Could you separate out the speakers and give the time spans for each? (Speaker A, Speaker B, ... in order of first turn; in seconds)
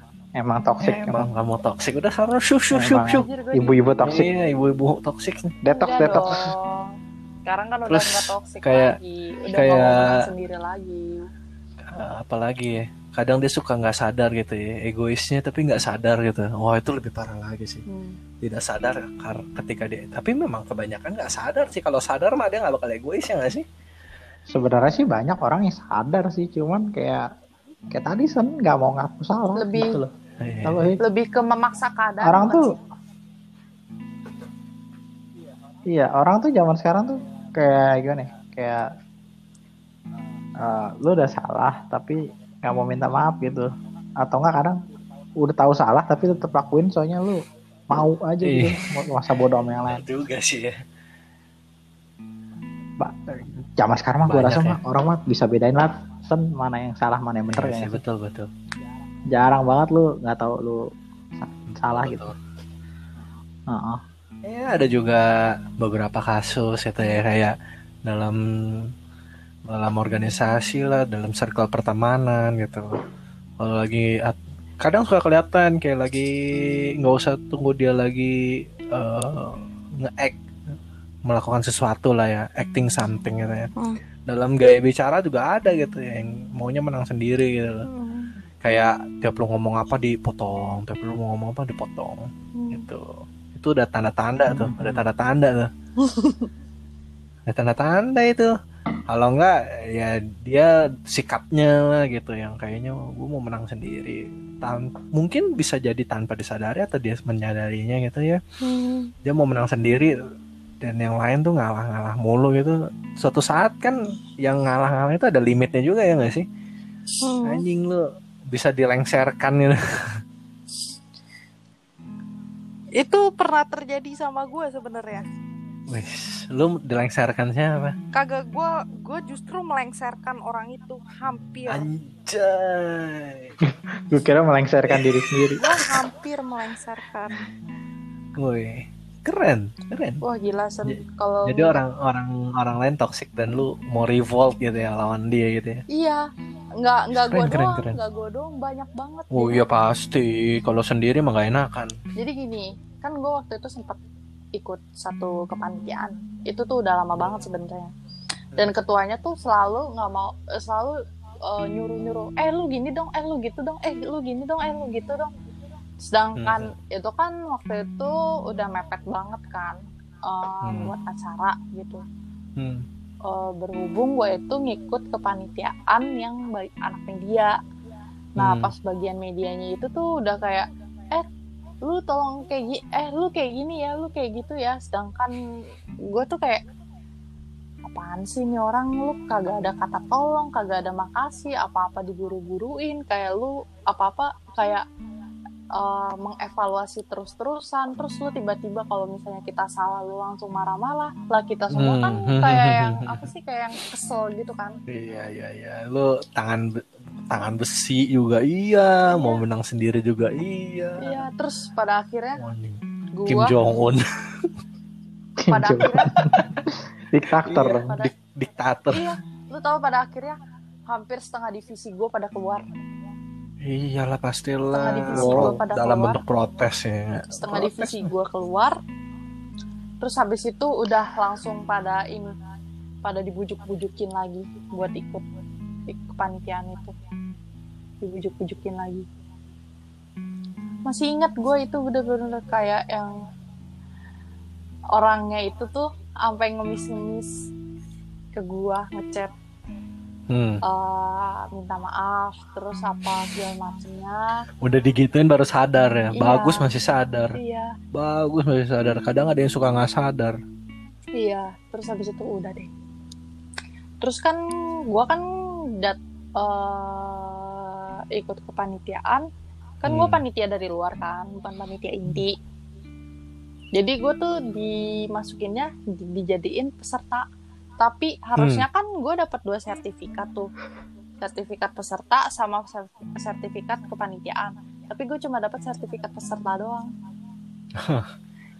Speaker A: 0.4-1.3, 2.7-4.3, 5.6-6.5, 24.5-27.2, 27.9-30.1, 30.6-31.0, 32.2-32.7, 35.9-38.9, 40.6-43.7, 44.2-44.8, 45.4-50.0, 53.0-58.0, 59.3-60.8, 61.4-62.3, 63.7-64.0, 94.5-95.0, 133.7-135.7, 215.4-217.9, 225.1-225.6
Speaker B: 0.8-3.3, 4.0-5.6, 7.9-9.0, 9.5-10.2, 11.8-17.8, 18.4-23.6, 30.4-30.9, 48.4-48.8, 49.9-50.8, 54.3-54.8, 57.5-58.5, 61.9-62.3, 64.4-68.9, 69.7-73.0, 73.6-80.3, 81.2-83.7, 84.3-87.9, 88.6-95.7, 97.5-98.5, 99.1-108.4, 109.2-110.1, 110.8-116.5, 117.4-120.1, 125.9-128.0, 131.7-133.5, 134.9-135.5, 138.3-140.2, 140.8-145.8, 147.2-148.0, 149.3-151.9, 166.4-166.7, 170.6-170.9, 172.6-172.8, 178.4-178.7, 201.7-203.3, 204.9-206.6, 207.3-211.2, 212.4-214.5, 217.4-219.1, 223.6-228.1, 250.3-250.6, 254.6-257.4, 257.9-260.4, 269.8-270.2, 278.4-278.6, 287.8-288.1
Speaker C: 3.1-4.0, 5.7-6.9, 7.5-11.3, 17.9-18.2, 29.6-30.0, 31.0-32.8, 87.8-88.3, 92.5-92.8, 96.0-96.5, 108.6-109.1, 117.2-117.6, 123.0-125.2, 128.1-131.8, 135.6-137.5, 140.2-141.8, 145.9-146.3, 146.8-149.7, 152.1-154.0, 154.5-157.9, 158.5-165.3, 166.0-172.0, 173.2-177.6, 178.4-181.3, 181.8-185.3, 186.1-186.6, 187.8-194.8, 195.7-204.8, 209.1-209.4, 211.0-212.4, 213.1-213.5, 215.5-216.2, 217.6-218.1, 218.9-222.6, 224.7-226.2, 227.3-228.8, 230.0-232.3, 233.0-235.2, 235.9-236.9, 238.0-239.1, 240.8-243.2, 244.9-247.3, 248.3-249.3, 250.6-254.4, 256.1-256.7, 257.3-257.8, 261.1-262.7, 264.0-265.2, 265.8-269.3, 269.8-272.4, 273.7-277.2, 277.8-280.5, 281.2-286.9